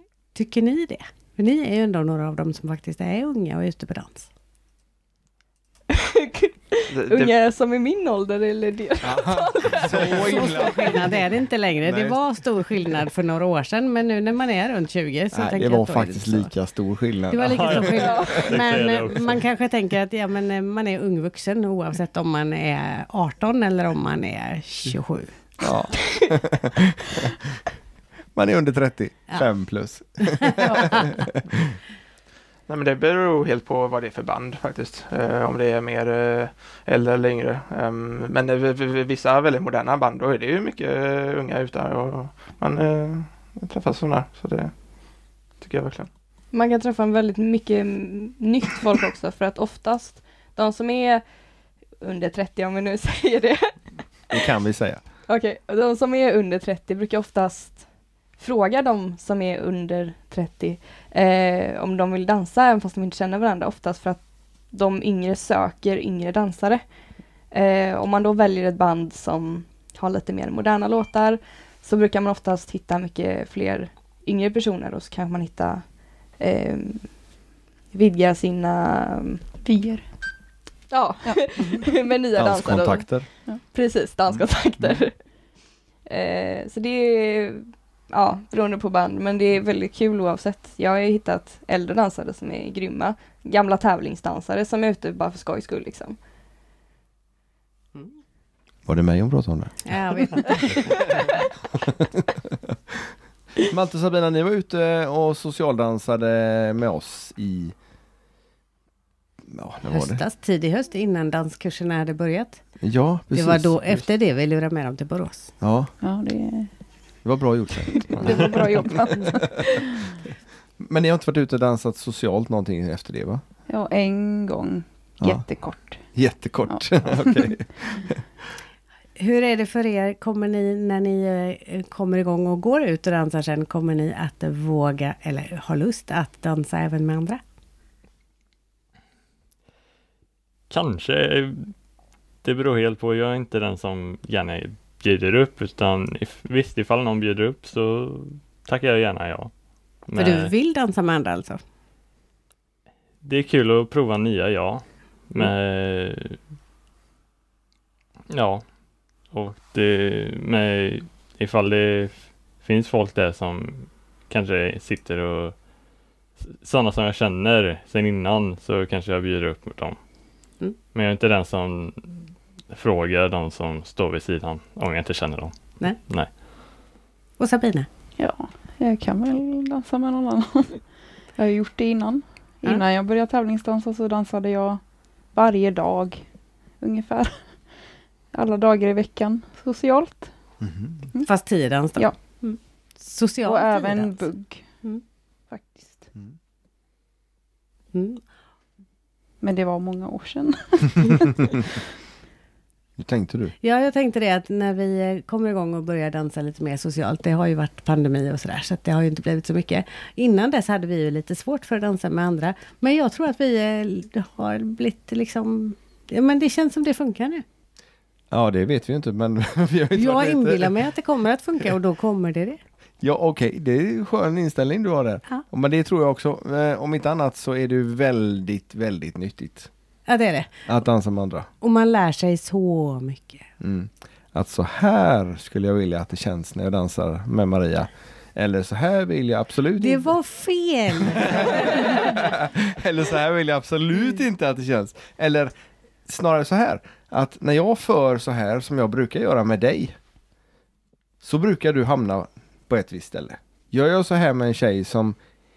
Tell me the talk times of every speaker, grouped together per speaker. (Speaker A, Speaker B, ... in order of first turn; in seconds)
Speaker A: 0.3-4.3, 9.8-16.5, 17.3-25.3, 30.3-31.1, 99.8-101.2, 109.9-112.6, 113.3-115.5, 129.2-137.4, 150.2-151.6, 177.4-177.9, 191.2-194.2, 197.9-198.2, 203.6-217.4, 219.9-222.6, 230.1-230.6, 231.6-233.5, 239.8-242.1
Speaker B: 5.9-10.8, 18.0-18.5, 46.5-51.2, 52.0-53.9, 55.3-57.8, 58.4-66.8, 67.5-75.8, 76.4-77.1, 77.9-79.4, 80.9-83.1, 83.7-85.1, 86.0-96.2
Speaker C: 6.9-7.3, 32.7-44.8, 45.6-46.1
Speaker D: 9.0-11.2, 11.8-12.2, 15.3-18.5, 25.6-27.5, 28.3-31.6, 54.3-55.0, 82.3-83.3, 98.8-100.4, 101.8-107.7, 109.5-110.2, 112.8-114.0, 115.6-115.9, 117.2-119.7, 120.8-123.4, 126.1-128.2, 190.6-191.0, 203.0-203.5, 218.3-220.8, 223.0-229.7, 230.7-231.5, 233.6-240.2, 241.0-245.5, 246.0-250.0, 251.2-255.2
Speaker E: 17.4-19.4, 140.7-141.7, 142.4-149.5, 150.1-150.5, 153.2-156.4, 158.3-158.6, 159.3-165.6, 166.4-170.0, 170.9-172.2, 172.7-176.3
Speaker F: 79.6-80.0, 81.2-81.9, 116.0-116.7, 118.2-120.1, 123.7-126.0, 126.7-127.5, 178.2-180.8, 181.3-184.8, 185.3-186.2, 186.8-187.5, 188.3-190.3, 193.4-194.6, 195.5-196.1, 199.4-201.7